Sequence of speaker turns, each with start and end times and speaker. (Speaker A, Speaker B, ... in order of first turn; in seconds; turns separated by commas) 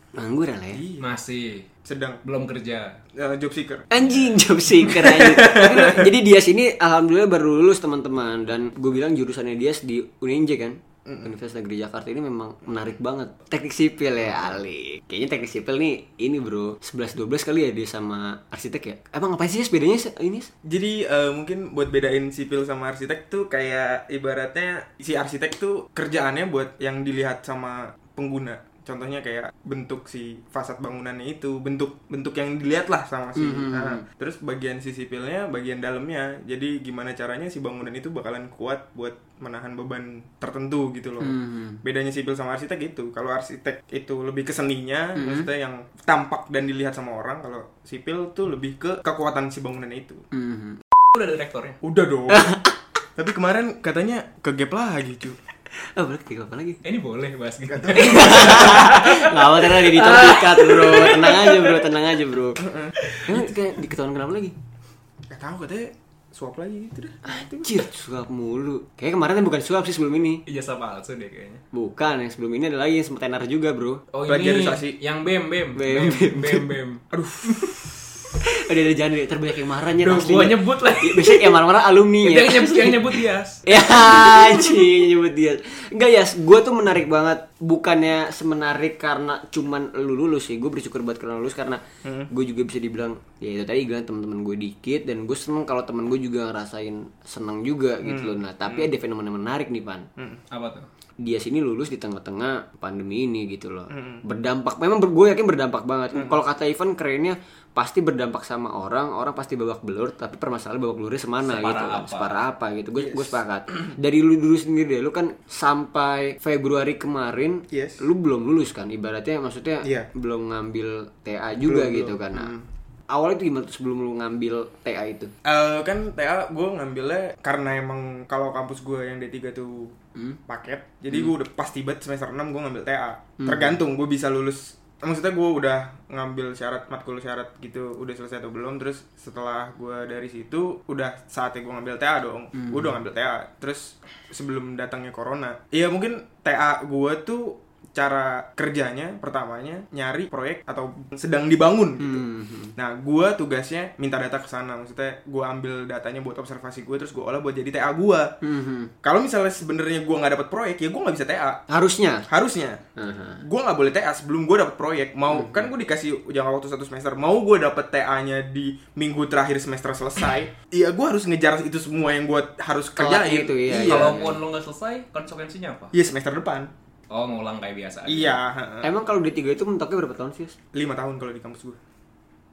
Speaker A: 0.1-0.8, Speaker B: 0.7-1.1, Speaker C: 1.0-1.7, Speaker B: 1.9-2.2, Speaker C: 2.2-3.0, Speaker B: 3.1-3.9, Speaker A: 3.9-20.5, Speaker B: 4.8-6.1, Speaker B: 20.6-50.2, Speaker A: 33.4-34.0, Speaker A: 41.2-41.8, Speaker A: 45.2-45.5, Speaker A: 50.3-50.8, Speaker C: 51.1-51.8, Speaker B: 51.8-52.6, Speaker A: 52.3-52.8, Speaker B: 53.2-55.4, Speaker A: 55.8-56.8, Speaker C: 56.8-61.9, Speaker B: 57.7-58.4, Speaker A: 57.9-62.6, Speaker B: 62.6-62.9, Speaker A: 63.2-64.5, Speaker B: 65.3-67.7, Speaker A: 67.2-70.4, Speaker C: 70.5-71.6, Speaker A: 71.7-74.0, Speaker C: 74.1-77.8, Speaker B: 74.3-75.0, Speaker A: 75.8-76.7, Speaker B: 77.1-77.9, Speaker A: 78.4-100.1, Speaker C: 80.0-84.6, Speaker B: 92.0-92.3, Speaker B: 98.0-98.9, Speaker C: 100.5-100.9, Speaker A: 101.2-122.5, Speaker B: 103.9-104.2, Speaker C: 111.4-112.4, Speaker B: 113.0-113.4, Speaker B: 117.7-118.0, Speaker B: 119.8-120.1, Speaker B: 121.6-122.7, Speaker A: 123.1-125.3, Speaker B: 125.5-129.9, Speaker B: 130.5-152.2, Speaker A: 133.4-133.8, Speaker A: 142.6-142.9, Speaker A: 152.0-152.7, Speaker B: 152.8-158.3, Speaker A: 158.4-158.9, Speaker B: 159.0-161.6, Speaker A: 161.7-162.3, Speaker B: 162.3-162.8, Speaker A: 163.0-163.4, Speaker B: 163.4-174.3, Speaker A: 165.3-165.6, Speaker A: 173.0-174.3, Speaker C: 173.7-175.9, Speaker B: 175.9-176.7, Speaker C: 177.1-178.4, Speaker B: 178.1-178.9, Speaker A: 178.8-180.6, Speaker B: 180.7-181.8